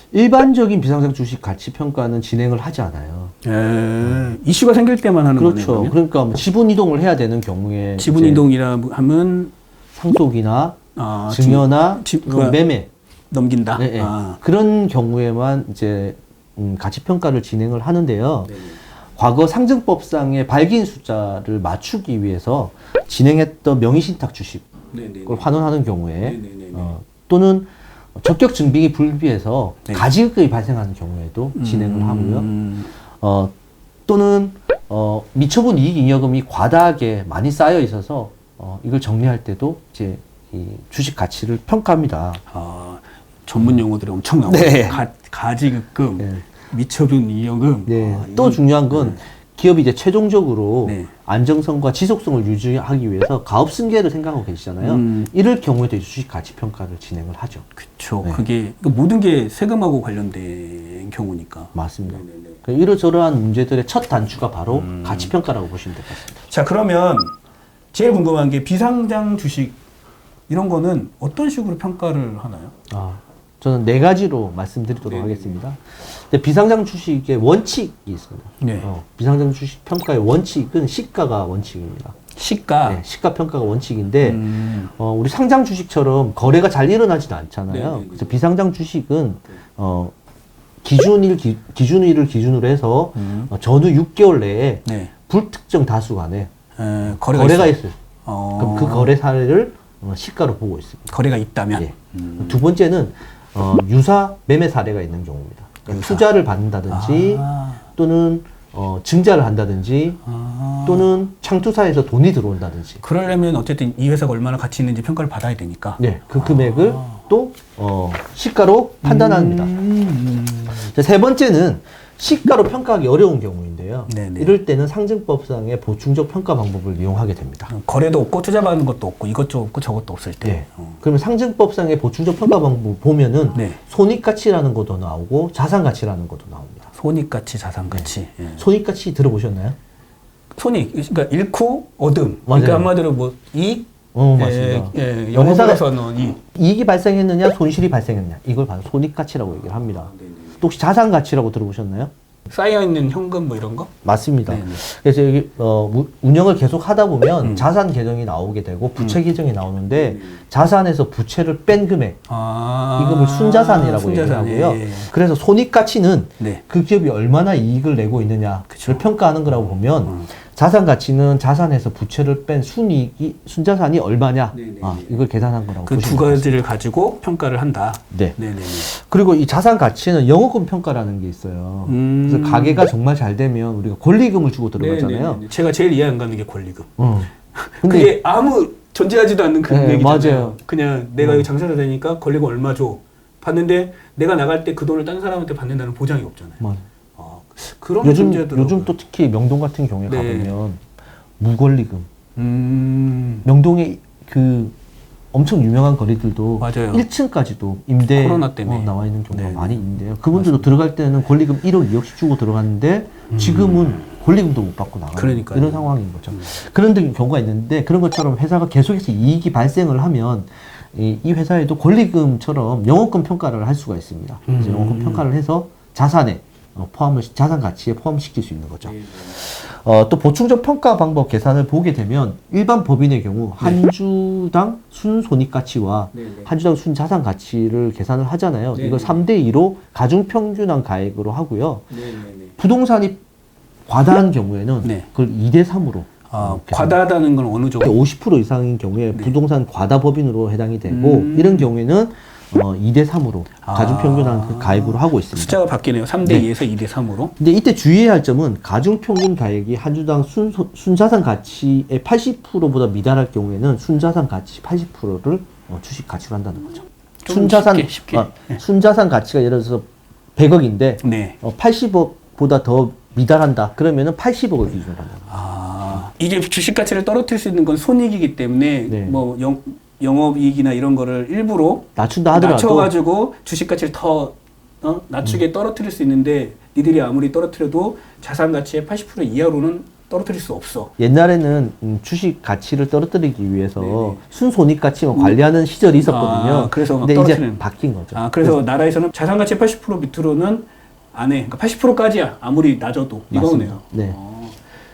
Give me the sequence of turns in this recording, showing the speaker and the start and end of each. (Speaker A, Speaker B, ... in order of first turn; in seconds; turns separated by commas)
Speaker A: 0.1-3.3, Speaker B: 3.4-6.0, Speaker A: 5.4-8.4, Speaker B: 8.0-9.5, Speaker A: 9.9-10.8, Speaker B: 10.9-12.6, Speaker A: 11.3-12.9, Speaker B: 13.3-14.4, Speaker A: 13.8-18.6, Speaker B: 18.5-18.8, Speaker A: 19.1-24.7, Speaker B: 24.9-25.5, Speaker A: 25.3-32.5, Speaker B: 26.2-27.0, Speaker B: 31.6-32.9, Speaker A: 33.2-33.5, Speaker A: 34.1-42.4, Speaker B: 42.5-49.2, Speaker A: 44.5-45.0, Speaker A: 47.9-57.7, Speaker B: 50.9-51.1, Speaker B: 54.8-55.3, Speaker B: 57.8-62.6, Speaker A: 61.8-66.3, Speaker B: 64.7-65.3, Speaker B: 66.2-67.3, Speaker B: 67.9-69.8, Speaker B: 70.5-72.7, Speaker A: 72.9-82.2, Speaker B: 75.0-75.6, Speaker B: 78.6-78.9, Speaker B: 82.3-83.0, Speaker A: 82.8-90.1, Speaker B: 84.2-84.9, Speaker B: 87.7-88.4, Speaker A: 90.8-96.5, Speaker B: 93.2-93.5, Speaker B: 94.9-95.1, Speaker B: 96.8-99.1, Speaker A: 97.1-98.0, Speaker A: 98.6-101.1, Speaker B: 101.1-102.6, Speaker A: 101.8-107.5, Speaker B: 105.9-106.3, Speaker B: 106.9-107.8, Speaker A: 108.0-110.2, Speaker B: 110.2-111.1, Speaker A: 110.8-113.0, Speaker B: 113.0-117.2, Speaker A: 116.0-119.7, Speaker B: 119.0-120.9, Speaker A: 120.7-127.7, Speaker B: 124.1-124.6, Speaker B: 127.7-131.0, Speaker A: 130.4-136.9, Speaker B: 133.5-133.8, Speaker B: 136.9-138.7, Speaker A: 137.9-139.8, Speaker B: 140.6-146.4, Speaker A: 142.5-142.9, Speaker A: 144.1-152.1, Speaker B: 150.1-150.6, Speaker B: 152.5-153.9, Speaker A: 154.0-162.2, Speaker B: 154.5-154.8, Speaker B: 157.4-157.7, Speaker B: 159.0-159.2, Speaker B: 160.0-160.4, Speaker B: 162.3-165.1, Speaker A: 163.0-176.5, Speaker B: 168.7-169.0, Speaker B: 174.5-175.2, Speaker B: 175.8-178.9, Speaker A: 178.1-185.4, Speaker B: 181.9-182.9, Speaker B: 184.8-186.9, Speaker A: 187.0-187.3, Speaker B: 187.6-196.6, Speaker A: 187.8-188.2, Speaker A: 189.7-190.6, Speaker A: 191.2-191.5, Speaker B: 197.2-198.9, Speaker A: 198.0-200.8, Speaker B: 200.1-200.6, Speaker A: 201.4-202.1, Speaker B: 202.4-203.5, Speaker A: 203.4-204.8, Speaker A: 205.3-241.9, Speaker B: 206.6-207.1, Speaker B: 208.1-210.7, Speaker B: 213.3-214.0, Speaker B: 215.1-216.5, Speaker B: 224.5-225.2, Speaker B: 228.8-229.3, Speaker B: 236.1-236.5, Speaker B: 238.7-239.2, Speaker B: 241.9-242.5, Speaker A: 242.6-243.2, Speaker A: 243.9-247.0, Speaker B: 244.8-245.1, Speaker B: 246.3-248.1, Speaker A: 247.8-255.6, Speaker B: 250.9-251.7, Speaker B: 253.6-257.3, Speaker A: 257.4-275.4, Speaker B: 267.3-268.6, Speaker B: 271.0-271.4, Speaker B: 275.3-290.9, Speaker A: 278.9-279.2, Speaker A: 282.0-282.9, Speaker A: 291.0-298.6, Speaker B: 293.8-294.2, Speaker B: 295.1-295.4, Speaker B: 296.0-304.6, Speaker A: 303.3-304.2